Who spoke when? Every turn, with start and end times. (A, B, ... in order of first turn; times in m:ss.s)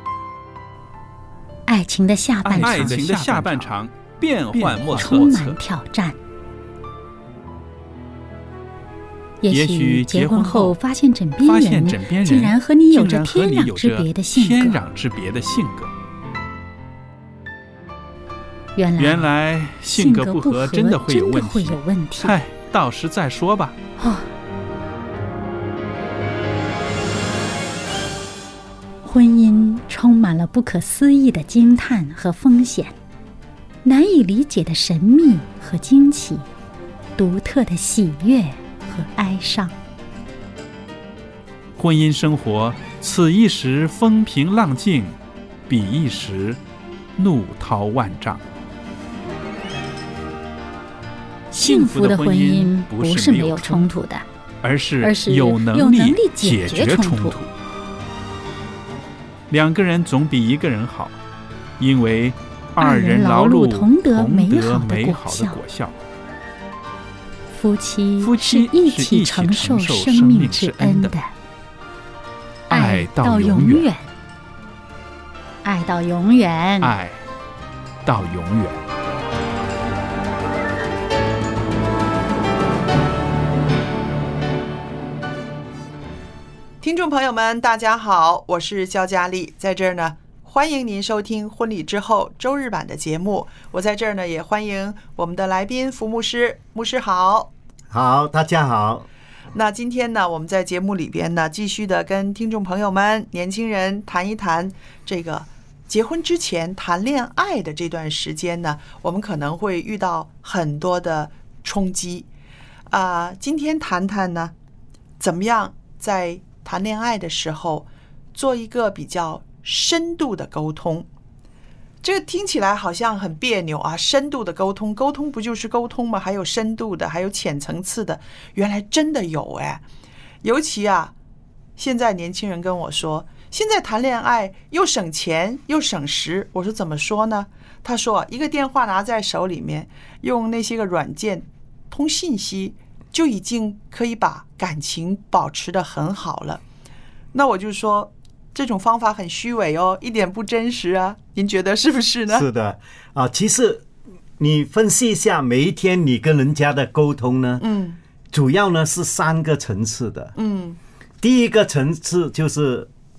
0:01.7-0:03.7 A
0:02.4-0:05.6 B
0:04.5-0:06.2 A
0:09.4-0:14.8 A
0:09.5-0:10.8 B
0:11.4-0:15.9 B
0:18.8-0:19.3 A
0:19.0-0:23.8 B
0:20.0-0:22.4 A
0:24.0-0:24.3 A
0:29.0-0:32.9 A
0:33.8-0:36.4 A
0:37.2-0:39.7 A
0:41.8-0:45.2 B
0:45.7-0:46.6 B
0:47.2-0:48.4 B
0:51.5-0:53.9 B
0:51.5-0:54.2 A
0:54.6-0:57.5 B
0:55.0-0:57.4 A
0:59.5-1:01.2 B
1:01.8-1:06.0 B
1:02.8-1:05.6 A
1:07.5-1:11.3 A
1:08.2-1:11.2 B
1:12.7-1:13.9 B
1:12.7-1:14.1 A
1:15.6-1:16.9 A
1:16.8-1:17.2 B
1:18.0-1:18.8 B
1:26.8-1:37.5 C
1:37.9-1:39.1 D
1:39.5-1:52.3 C
1:52.9-1:54.5 C
1:55.2-2:01.1 C
2:02.0-2:09.8 C
2:10.4-2:11.1 C
2:11.8-2:26.6 C
2:27.3-2:32.5 C
2:32.3-2:33.9 D
2:34.4-2:37.6 D
2:37.6-2:38.0 C
2:38.3-2:40.3 D
2:40.4-2:40.8 C
2:41.2-2:42.9 D